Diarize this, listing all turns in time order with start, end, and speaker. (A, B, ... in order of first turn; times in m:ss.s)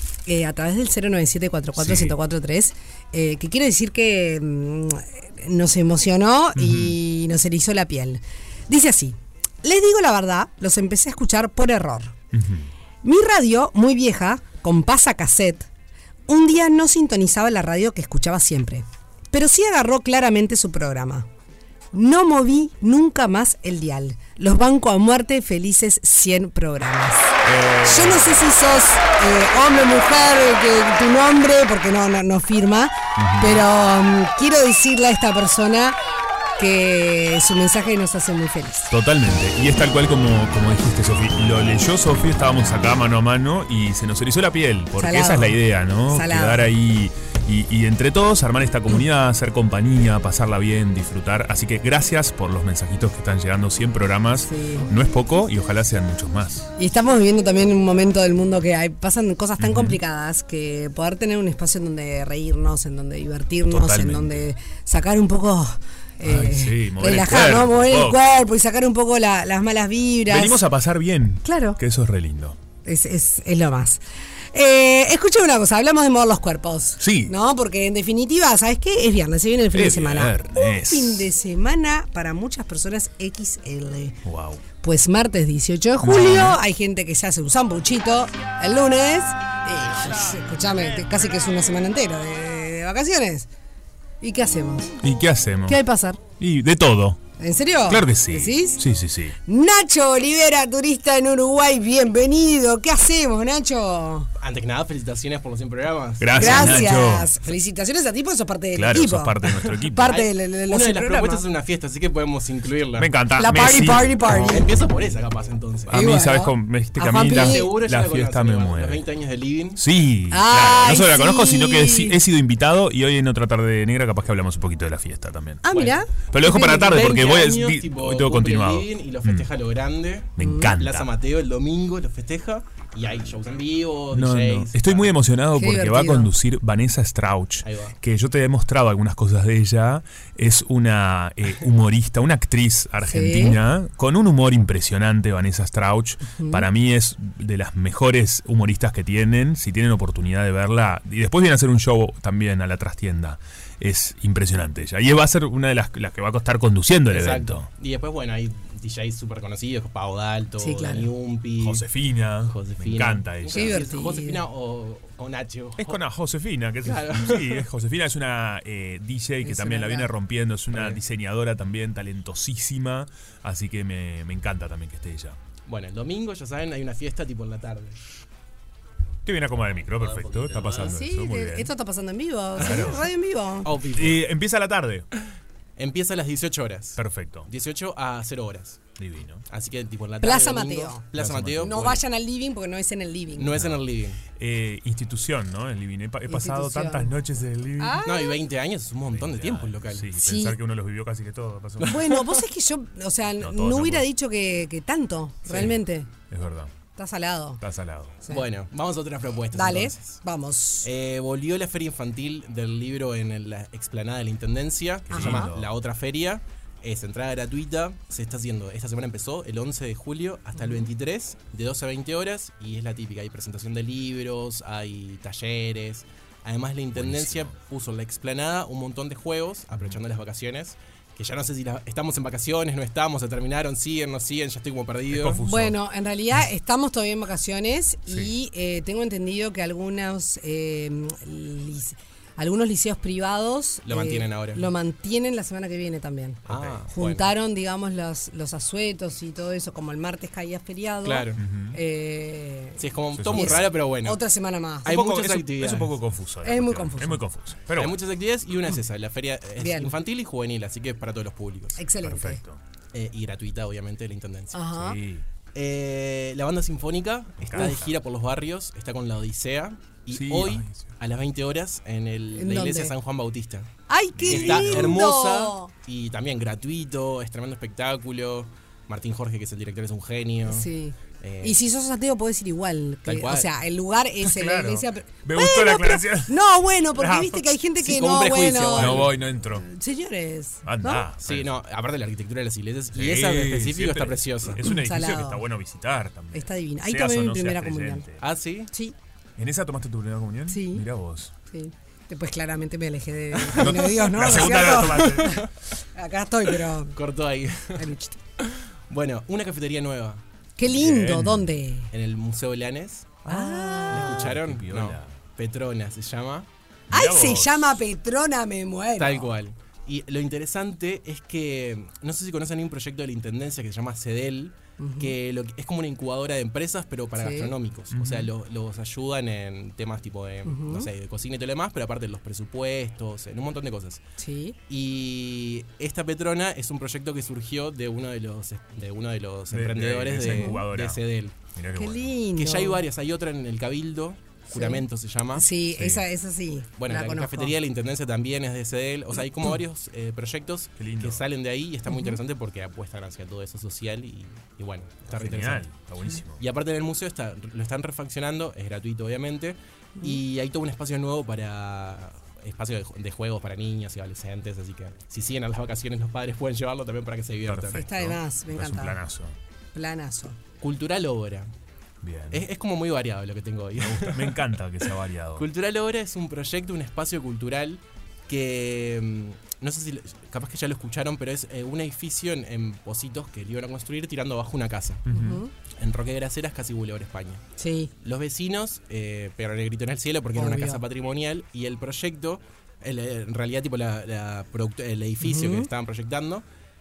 0:00.3-0:12.2 A
0:01.8-0:02.2 B
0:06.6-0:07.0 B
0:12.3-0:12.7 B
0:13.0-0:15.7 A
0:16.3-0:21.3 A
0:21.9-0:36.0 A
0:27.4-0:28.5 B
0:33.2-0:33.7 B
0:36.6-0:38.9 A
0:38.9-0:56.7 B
0:45.0-0:46.7 A
0:54.4-0:54.9 A
0:56.8-1:10.7 A
0:59.6-1:00.0 B
1:03.7-1:04.5 B
1:06.2-1:08.3 B
1:10.3-1:12.6 B
1:11.4-1:11.8 A
1:12.8-1:14.0 A
1:14.5-1:24.2 A
1:17.0-1:17.4 B
1:19.7-1:21.3 B
1:24.2-1:24.6 B
1:24.8-1:33.5 A
1:26.0-1:26.6 B
1:34.2-1:34.9 A
1:35.0-1:35.8 B
1:35.7-1:36.2 A
1:36.4-1:37.2 B
1:37.4-1:38.8 A
1:37.9-1:39.4 B
1:39.4-1:44.3 A
1:44.4-1:47.0 C
1:46.2-1:47.3 B
1:46.4-1:51.4 A
1:48.8-1:50.2 B
1:50.1-1:53.2 C
1:53.0-1:54.5 B
1:53.4-1:54.7 A
1:54.3-1:56.1 C
1:55.9-1:59.1 B
1:55.9-1:57.7 A
1:57.2-1:59.8 C
1:59.8-2:05.6 B
2:00.3-2:02.2 A
2:05.6-2:07.2 A
2:05.7-2:06.0 C
2:06.3-2:09.5 B
2:06.6-2:15.1 C
2:10.4-2:11.1 B
2:10.4-2:10.7 A
2:14.1-2:37.7 B
2:15.5-2:16.3 A
2:17.6-2:18.0 C
2:23.0-2:23.6 A
2:26.3-2:26.7 A
2:37.1-2:41.9 C
2:40.6-2:41.1 A
2:41.6-2:43.8 B
2:42.4-2:46.0 C
2:43.5-2:44.4 A
2:45.8-2:55.4 B
2:46.8-2:47.7 C
2:49.4-2:50.1 A
2:50.7-2:51.0 C
2:55.7-2:58.0 C
2:59.2-3:01.7 B
3:00.8-3:03.7 A
3:02.6-3:03.0 C
3:02.6-3:03.0 B
3:03.6-3:04.2 C
3:03.9-3:05.1 B
3:05.8-3:08.8 C
3:07.0-3:07.5 B
3:09.0-3:09.4 B
3:09.5-3:12.0 C
3:10.2-3:11.1 A
3:11.2-3:11.8 B
3:11.6-3:13.6 A
3:13.4-3:14.2 C
3:13.5-3:13.8 B
3:14.3-3:18.0 B
3:16.3-3:17.2 A
3:17.8-3:18.4 A
3:18.0-3:20.1 C
3:19.1-3:22.2 B
3:20.2-3:20.6 A
3:21.8-3:26.1 A
3:21.9-3:22.2 C
3:23.4-3:24.1 B
3:25.5-3:25.7 C
3:26.3-3:26.7 B
3:27.0-3:27.6 A
3:27.6-3:28.2 B
3:28.3-3:30.2 C
3:29.5-3:30.9 A
3:30.8-3:55.4 C
3:35.1-3:35.7 B
3:35.2-3:35.5 A
3:40.6-3:40.9 A
3:47.0-3:47.6 B
3:55.1-3:55.8 B
3:55.4-4:15.0 A
3:58.1-3:58.3 B
4:03.8-4:04.7 C
4:06.5-4:06.8 B
4:06.5-4:07.3 C
4:11.0-4:11.4 C
4:11.4-4:11.8 B
4:12.8-4:14.2 C
4:13.1-4:13.7 B
4:14.8-4:16.0 C
4:14.9-4:18.0 B
4:16.4-4:17.2 A
4:17.8-4:21.8 C
4:19.6-4:20.0 A
4:21.8-4:22.4 A
4:22.0-4:22.6 B
4:22.9-4:24.6 C
4:24.5-4:25.0 A
4:24.8-4:25.2 B
4:25.5-4:33.7 C
4:27.4-4:28.0 B
4:27.6-4:27.8 A
4:30.1-4:30.9 B
4:32.4-4:33.0 A
4:33.9-4:35.7 A
4:34.1-4:35.0 B
4:34.3-4:40.7 C
4:40.5-4:51.1 A
4:41.2-4:41.6 C
4:43.0-4:43.5 C
4:44.2-4:47.5 B
4:47.8-4:49.2 C
4:48.7-4:49.7 B
4:50.6-4:51.5 B
4:51.2-4:54.7 C
4:52.9-4:58.2 B
4:54.7-4:55.5 A
4:56.3-4:58.1 A
4:58.2-4:58.7 C
4:59.4-5:01.3 B
5:00.5-5:00.9 A
5:01.5-5:07.0 A
5:03.5-5:05.4 B
5:03.5-5:03.8 C
5:04.5-5:05.5 C
5:06.9-5:07.9 C
5:07.8-5:08.2 A
5:08.5-5:10.2 C
5:10.6-5:11.9 A
5:10.7-5:11.5 B
5:11.9-5:16.5 C
5:13.3-5:14.2 A
5:13.9-5:15.2 B
5:16.9-5:17.8 B
5:16.9-5:19.3 A
5:19.0-5:34.0 C
5:24.8-5:25.2 A
5:27.2-5:27.6 A
5:27.9-5:28.3 B
5:30.5-5:30.9 A
5:34.2-5:34.6 A
5:34.7-5:41.4 C
5:39.5-5:41.0 B
5:40.2-5:40.6 A
5:41.6-5:42.1 B
5:41.8-5:42.8 A
5:42.4-5:45.5 C
5:44.5-5:47.6 A
5:45.8-5:46.0 B
5:46.8-5:55.7 C
5:50.8-5:51.2 B
5:51.9-5:52.2 A
5:55.1-5:56.4 B
5:56.4-6:07.8 C
6:07.5-6:09.4 B
6:07.7-6:09.0 A
6:09.7-6:10.4 A
6:10.6-6:11.5 C
6:12.0-6:12.4 B
6:12.3-6:14.4 C
6:13.8-6:15.4 B
6:15.4-6:25.1 C
6:25.1-6:25.4 B
6:25.1-6:25.5 A
6:25.8-6:27.4 C
6:27.6-6:27.9 A
6:28.0-6:36.4 C
6:30.4-6:30.8 A
6:35.2-6:35.7 A